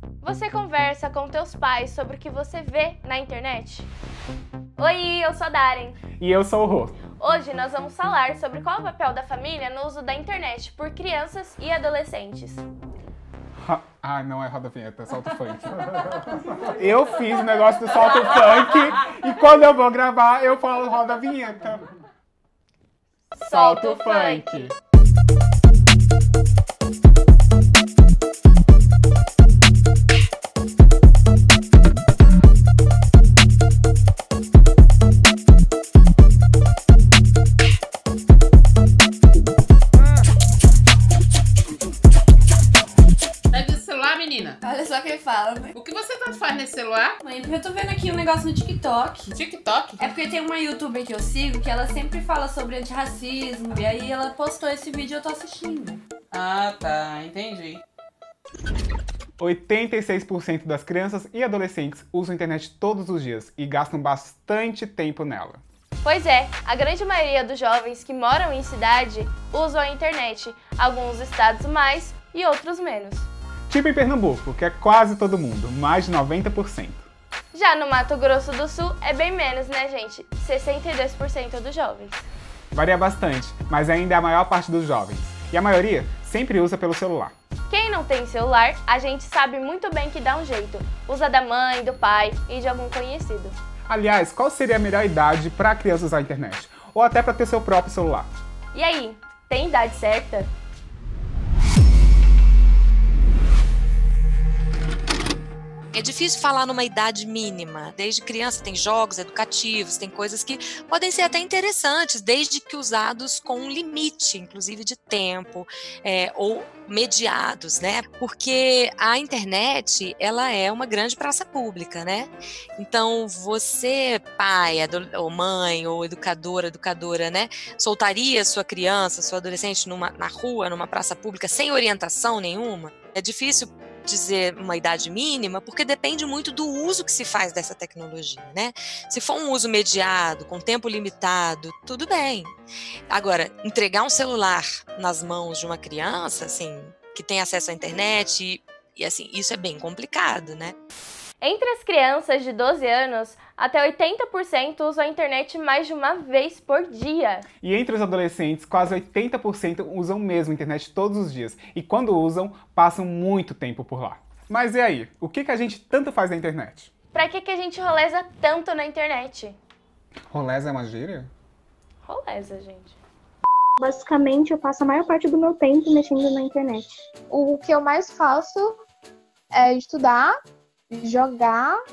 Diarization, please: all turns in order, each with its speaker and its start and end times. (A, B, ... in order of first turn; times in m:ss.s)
0:00.2-0:03.9 A
0:04.8-0:06.0 A
0:06.2-0:07.0 B
0:07.2-0:12.6 A
0:13.6-0:21.8 B
0:23.4-0:24.7 A
0:23.4-0:24.7 B
0:43.5-0:44.5 C
0:44.6-0:45.7 D
0:45.8-0:47.1 C
0:47.2-0:49.4 D
0:49.4-0:49.9 C
0:50.0-0:56.0 D
0:56.3-0:57.7 C
0:59.4-1:05.6 B
1:06.0-1:13.3 A
1:13.7-1:17.1 B
1:17.5-1:22.2 A
1:22.7-1:27.3 B
1:27.7-1:33.6 A
1:33.9-1:38.3 B
1:38.7-1:40.5 A
1:45.9-2:22.5 E
2:23.1-2:30.7 E
2:31.4-2:37.4 A
2:37.6-2:46.9 B
2:47.1-2:49.6 A
2:50.3-2:51.3 B
2:52.0-2:53.0 A
2:53.8-2:56.9 F
2:57.3-2:58.8 G
2:59.5-3:00.3 G
3:00.9-3:01.7 G